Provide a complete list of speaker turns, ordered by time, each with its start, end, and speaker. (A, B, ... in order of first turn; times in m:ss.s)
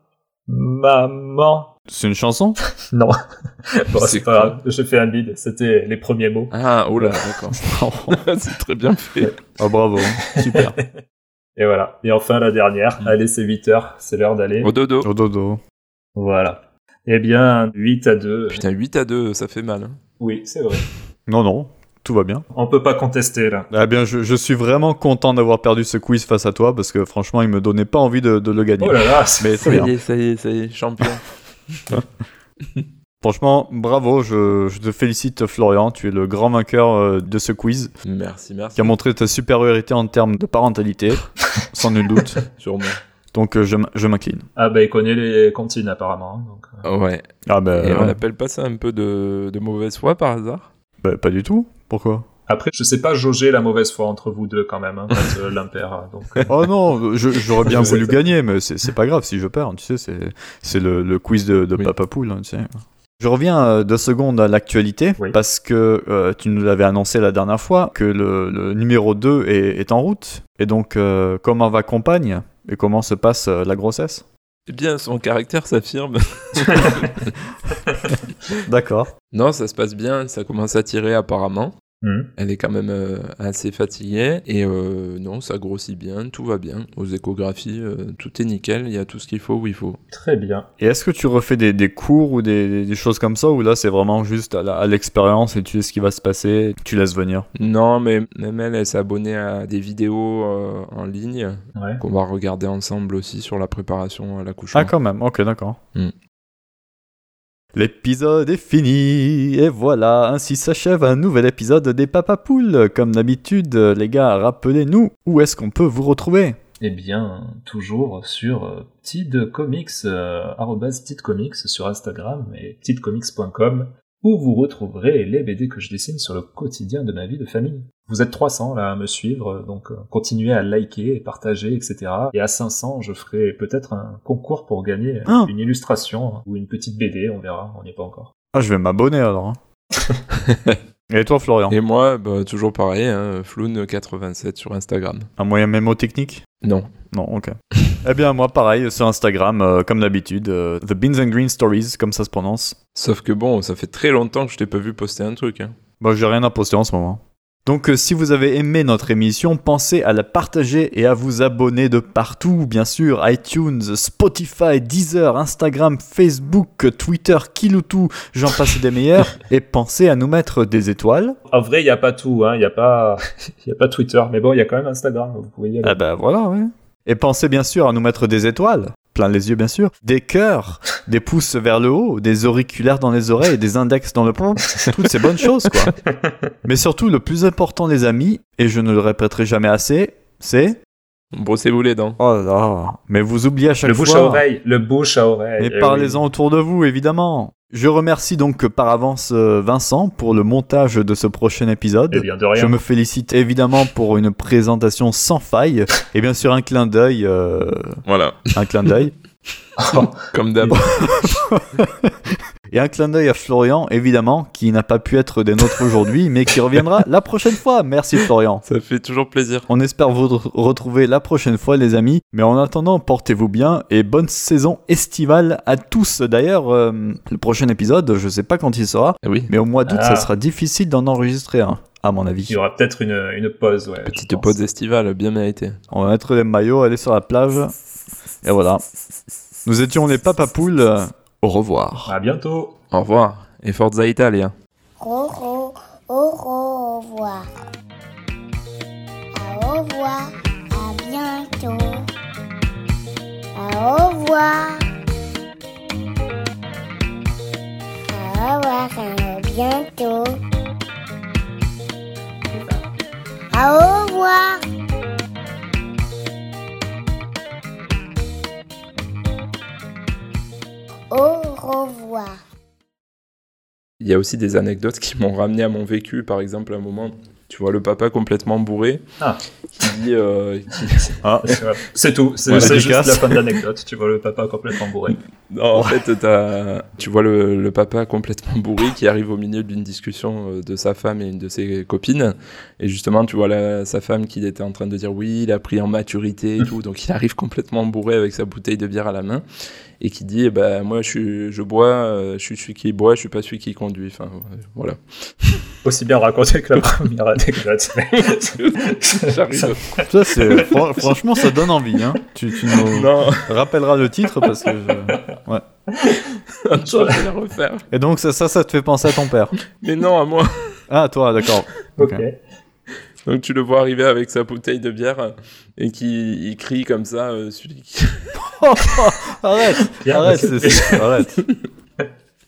0:00.5-0:01.7 A
0:01.9-0:02.6 B
0:02.8-0:07.5 A
0:03.9-0:04.6 C
0:06.5-0:09.3 C
0:07.7-0:08.2 B
0:09.6-0:10.8 B
0:10.2-0:10.8 A
0:11.6-0:14.7 A
0:14.6-0:15.1 C
0:15.0-0:15.6 B
0:16.2-0:18.6 A
0:18.5-0:20.0 C
0:20.2-0:20.8 A
0:21.3-0:22.4 B
0:22.5-0:23.7 A
0:23.7-0:29.9 B
0:28.8-0:29.8 A
0:29.6-0:31.2 C
0:33.2-0:37.9 B
0:38.0-0:38.9 C
0:38.8-0:42.4 B
0:42.6-0:43.0 C
0:43.3-0:44.4 B
0:44.6-0:46.8 A
0:46.8-0:47.3 C
0:47.5-0:48.2 B
0:47.8-0:50.7 C
0:51.0-0:52.3 B
0:52.5-0:56.5 A
0:56.5-1:14.2 B
0:57.6-0:58.2 A
0:57.7-0:58.0 C
1:14.7-1:17.3 C
1:18.7-1:19.1 B
1:19.3-1:21.8 C
1:22.0-1:22.3 A
1:22.4-1:30.0 C
1:30.1-1:30.7 A
1:30.8-1:37.5 B
1:37.6-1:44.9 C
1:41.8-1:42.0 A
1:44.7-1:45.8 B
1:47.7-1:56.6 B
1:56.8-2:18.3 A
2:18.5-2:19.6 B
2:20.5-2:20.8 C
2:21.1-2:21.8 B
2:21.7-2:25.3 C
2:25.4-2:26.4 B
2:26.6-2:26.9 C
2:27.1-2:32.8 B
2:33.0-2:35.8 C
2:36.0-2:51.4 B
2:51.5-2:56.0 A
2:55.8-3:06.0 B
3:06.6-3:10.8 B
3:11.3-3:12.2 C
3:12.2-3:14.4 B
3:13.8-3:16.2 A
3:15.6-3:28.0 B
3:22.1-3:22.8 A
3:28.0-3:28.5 C
3:28.6-3:29.1 B
3:29.8-3:30.8 A
3:30.3-3:31.3 C
3:31.0-3:38.6 B
3:38.6-3:39.7 C
3:39.7-3:52.6 B
3:49.2-3:49.5 C
3:49.9-3:50.3 A
3:52.5-3:54.6 A
3:54.0-3:55.8 C
3:55.9-3:57.7 B
3:58.4-3:58.8 B
3:59.6-4:02.1 B
4:02.1-4:02.8 A
4:02.9-4:04.5 C
4:05.0-4:07.5 D
4:09.3-4:12.0 D
4:13.6-4:14.9 D
4:18.1-4:20.4 D
4:23.5-4:24.6 D
4:31.1-4:32.4 D
4:34.0-4:39.0 C
4:39.7-4:41.2 C
4:41.2-4:41.6 B
4:41.4-4:45.2 A
4:42.5-4:42.8 C
4:42.5-4:43.4 B
4:45.1-4:59.4 C
5:00.0-5:05.7 C
5:05.8-5:11.1 A
5:08.2-5:10.0 C
5:10.0-5:15.6 B
5:12.9-5:13.5 C
5:15.9-5:17.2 A
5:16.6-5:17.9 C
5:17.9-5:19.6 B
5:19.7-5:20.7 C
5:20.9-5:22.2 B
5:22.0-5:22.3 A
5:23.2-5:28.4 C
5:28.4-5:31.4 B
5:30.0-5:31.1 A